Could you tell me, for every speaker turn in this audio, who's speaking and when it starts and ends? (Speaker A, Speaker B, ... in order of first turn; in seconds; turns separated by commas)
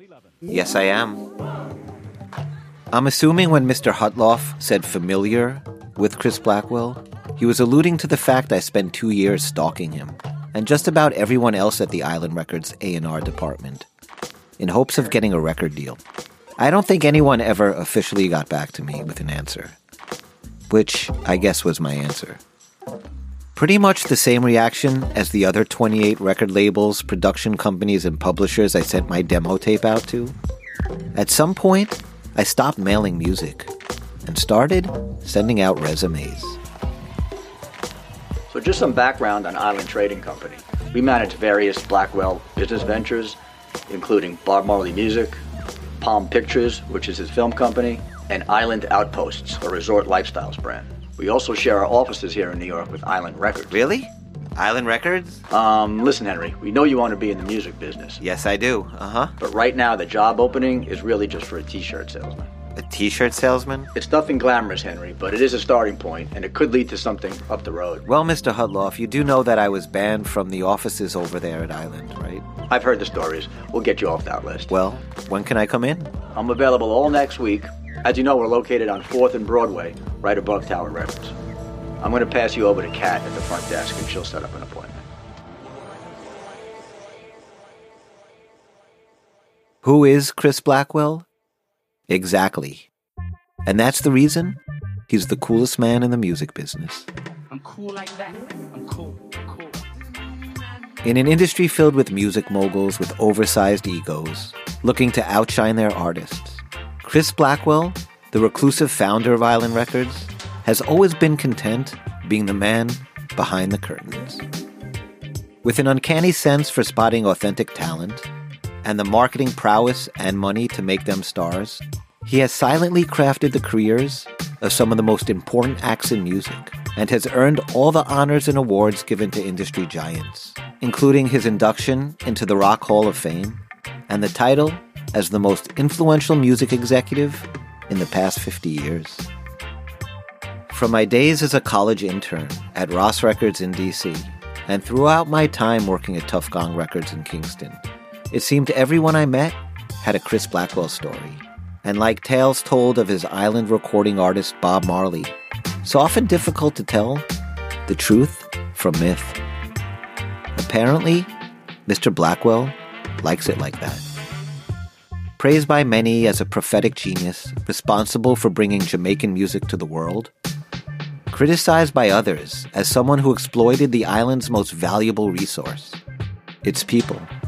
Speaker A: 0.5-1.2, Speaker A: 2.9-13.9, Speaker A: 14.6-16.0, Speaker A: 16.6-19.8, Speaker A: 20.7-22.4, Speaker A: 23.6-30.4, Speaker A: 31.1-33.7, Speaker A: 34.2-36.6, Speaker B: 38.5-43.4, Speaker B: 43.9-45.4, Speaker B: 46.0-53.8, Speaker A: 53.7-55.4, Speaker B: 55.5-58.2, Speaker A: 58.2-59.3, Speaker B: 59.4-62.5, Speaker A: 62.8-63.9, Speaker B: 64.0-68.0, Speaker A: 68.0-72.5, Speaker B: 72.7-74.7, Speaker A: 74.7-76.1, Speaker B: 76.3-81.3, Speaker B: 82.0-85.0, Speaker A: 89.8-91.3, Speaker A: 92.1-92.9, Speaker A: 93.7-94.6, Speaker A: 95.1-97.1, Speaker C: 97.6-99.6, Speaker A: 101.0-114.4, Speaker A: 115.6-118.3, Speaker A: 118.8-139.3, Speaker A: 140.7-157.3, Speaker A: 157.9-159.4, Speaker A: 160.6-161.3, Speaker A: 161.9-164.1, Speaker A: 165.4-170.3, Speaker A: 171.3-176.0, Speaker A: 176.6-177.3